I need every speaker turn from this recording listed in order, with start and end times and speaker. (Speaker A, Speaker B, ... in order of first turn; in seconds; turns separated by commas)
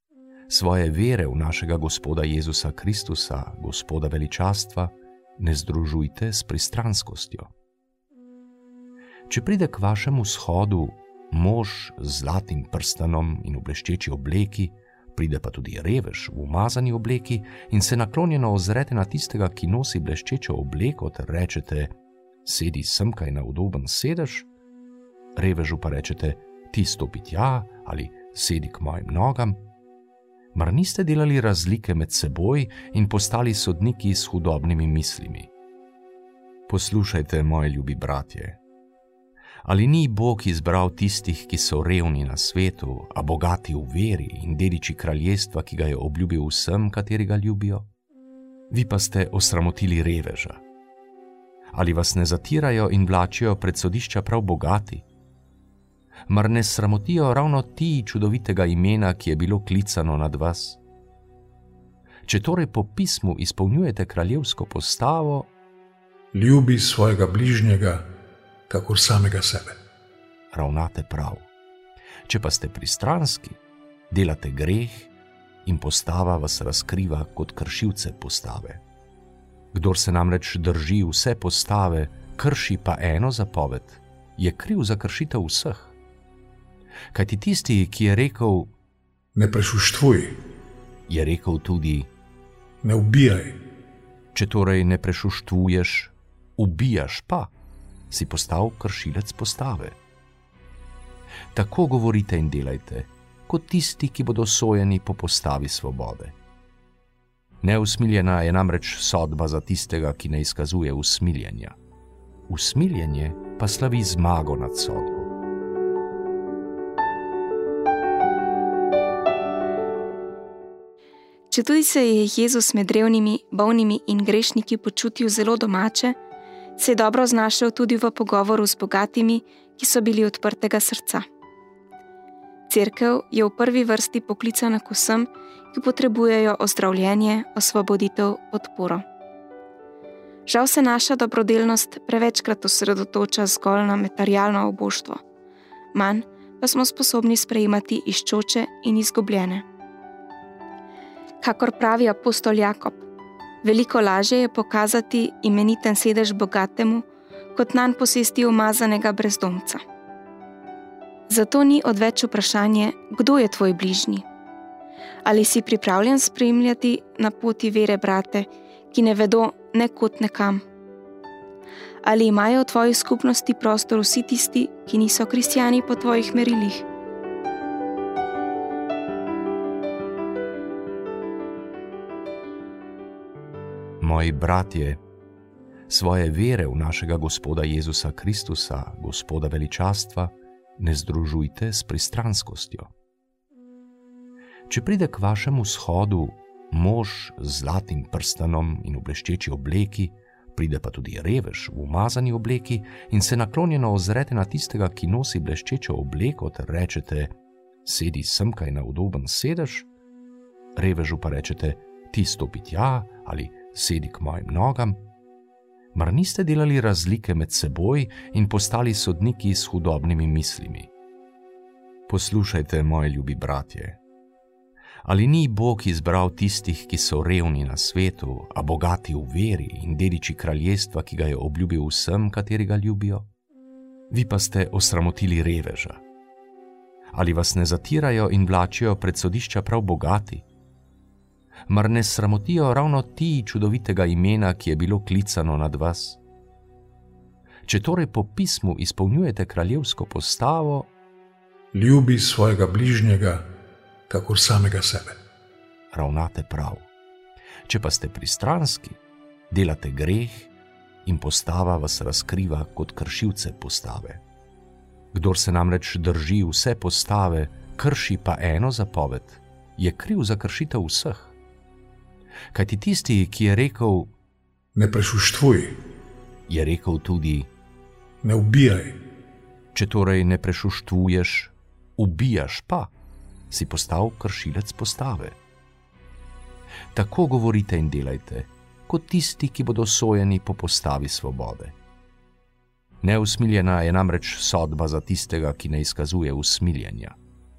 Speaker A: 0.5-7.5, Speaker A: 9.3-24.5, Speaker A: 25.4-29.6, Speaker A: 30.5-35.5, Speaker A: 36.7-38.6, Speaker A: 39.6-47.9, Speaker A: 48.7-50.6, Speaker A: 51.7-55.1, Speaker A: 56.3-60.8, Speaker A: 62.3-65.5, Speaker B: 66.3-68.0, Speaker B: 68.7-69.8, Speaker A: 70.5-71.5, Speaker A: 72.3-75.1, Speaker A: 75.7-78.8, Speaker A: 79.7-86.0, Speaker A: 87.1-88.7, Speaker B: 89.3-90.4, Speaker A: 91.1-92.1, Speaker B: 92.8-93.6, Speaker A: 94.3-97.5, Speaker A: 98.1-100.0, Speaker A: 101.5-106.4, Speaker A: 107.6-111.8, Speaker A: 112.5-115.3, Speaker C: 121.5-126.2, Speaker C: 126.8-131.2, Speaker C: 132.7-139.0, Speaker C: 140.5-145.2, Speaker C: 145.9-149.7, Speaker C: 151.4-153.0, Speaker C: 153.6-159.8, Speaker C: 161.3-164.2, Speaker C: 165.2-170.6, Speaker C: 172.0-176.9, Speaker A: 184.0-185.0, Speaker A: 185.9-192.9, Speaker A: 194.7-209.9, Speaker A: 210.8-215.0, Speaker A: 215.9-220.9, Speaker A: 222.1-224.0, Speaker A: 225.1-233.3, Speaker A: 234.1-236.0, Speaker A: 237.1-240.5, Speaker A: 241.7-246.2, Speaker A: 247.7-250.9, Speaker B: 251.7-253.4, Speaker B: 254.1-255.2, Speaker A: 255.9-256.9, Speaker A: 257.7-260.5, Speaker A: 261.1-264.2, Speaker A: 265.1-271.4, Speaker A: 272.5-274.1, Speaker B: 274.8-275.8, Speaker A: 276.5-277.5, Speaker B: 278.2-279.0, Speaker A: 279.8-282.9, Speaker A: 283.5-285.4, Speaker A: 286.9-291.8, Speaker A: 293.0-297.2